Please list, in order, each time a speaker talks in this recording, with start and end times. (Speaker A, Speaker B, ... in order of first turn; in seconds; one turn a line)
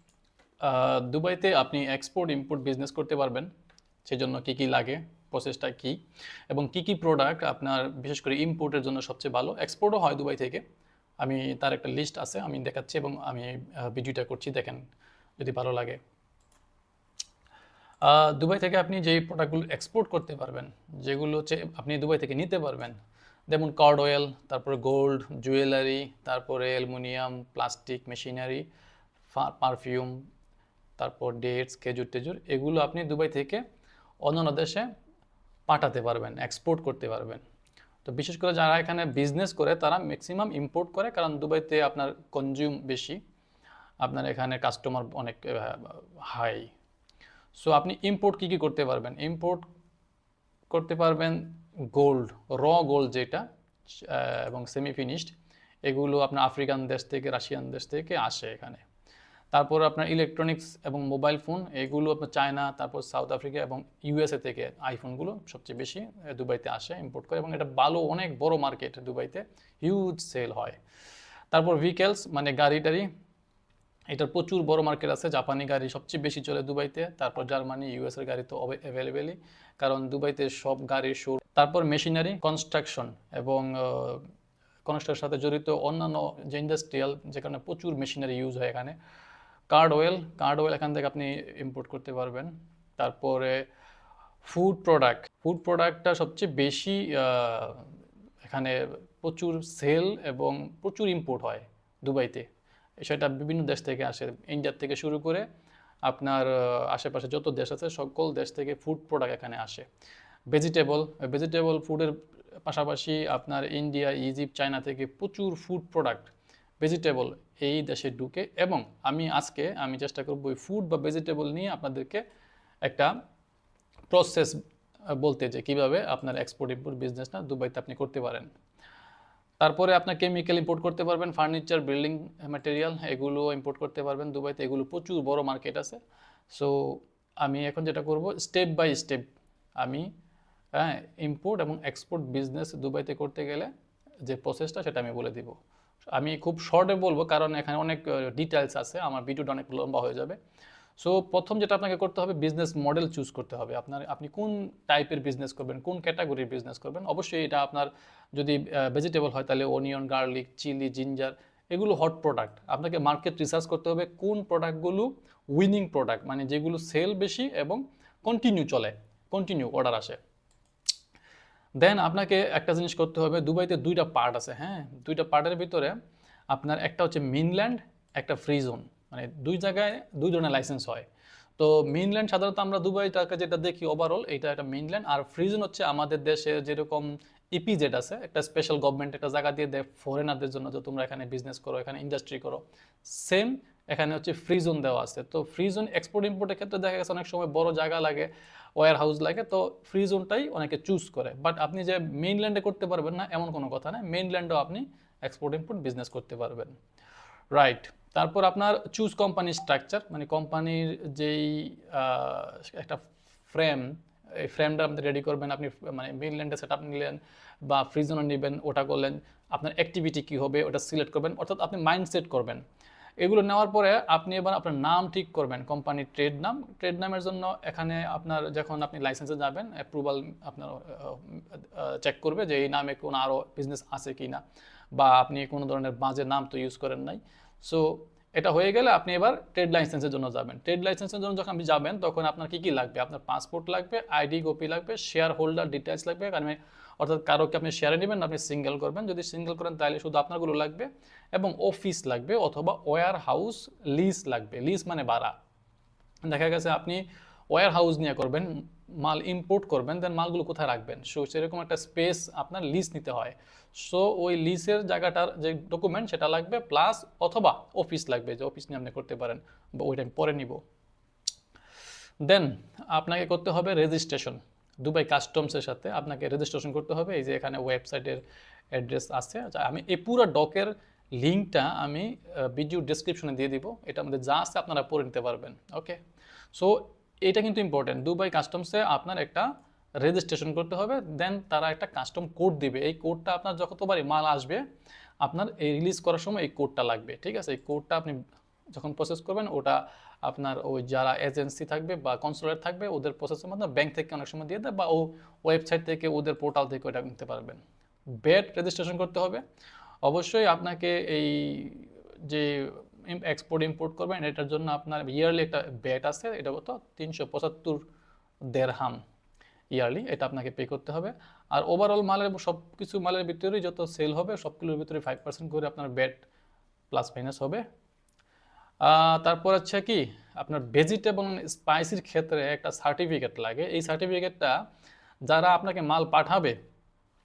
Speaker A: 0.6-3.5
Speaker A: 4.0-6.0
Speaker A: 6.5-10.6
Speaker A: 11.2-14.8
Speaker A: 15.4-16.0
Speaker A: 18.0-23.0
Speaker A: 23.5-28.6
Speaker A: 29.3-30.2
Speaker A: 31.0-33.6
Speaker A: 34.2-34.9
Speaker A: 35.7-37.4
Speaker A: 38.0-43.2
Speaker A: 44.0-46.7
Speaker A: 47.5-49.6
Speaker A: 50.7-55.3
Speaker A: 55.8-58.8
Speaker A: 59.5-70.8
Speaker A: 71.5-73.1
Speaker A: 74.1-84.2
Speaker A: 84.8-89.0
Speaker A: 89.7-93.6
Speaker A: 94.4-97.9
Speaker A: 98.4-102.5
Speaker A: 103.0-105.5
Speaker A: 106.0-109.8
Speaker A: 110.5-122.2
Speaker A: 122.8-123.1
Speaker A: 124.1-124.6
Speaker A: 125.1-128.5
Speaker A: 129.6-136.0
Speaker A: 136.5-140.1
Speaker A: 140.7-143.7
Speaker A: 144.2-145.6
Speaker A: 146.1-150.4
Speaker A: 151.0-170.2
Speaker A: 171.8-176.0
Speaker A: 176.5-181.1
Speaker A: 181.6-206.8
Speaker A: 207.5-222.6
Speaker A: 223.2-234.4
Speaker A: 234.9-255.3
Speaker A: 256.2-270.6
Speaker A: 272.2-286.0
Speaker A: 286.5-289.5
Speaker A: 290.0-294.6
Speaker A: 295.2-298.2
Speaker A: 298.7-307.6
Speaker A: 308.2-309.4
Speaker A: 310.0-317.8
Speaker A: 318.5-319.0
Speaker A: 319.7-326.3
Speaker A: 326.9-327.6
Speaker A: 328.8-334.6
Speaker A: 335.3-336.6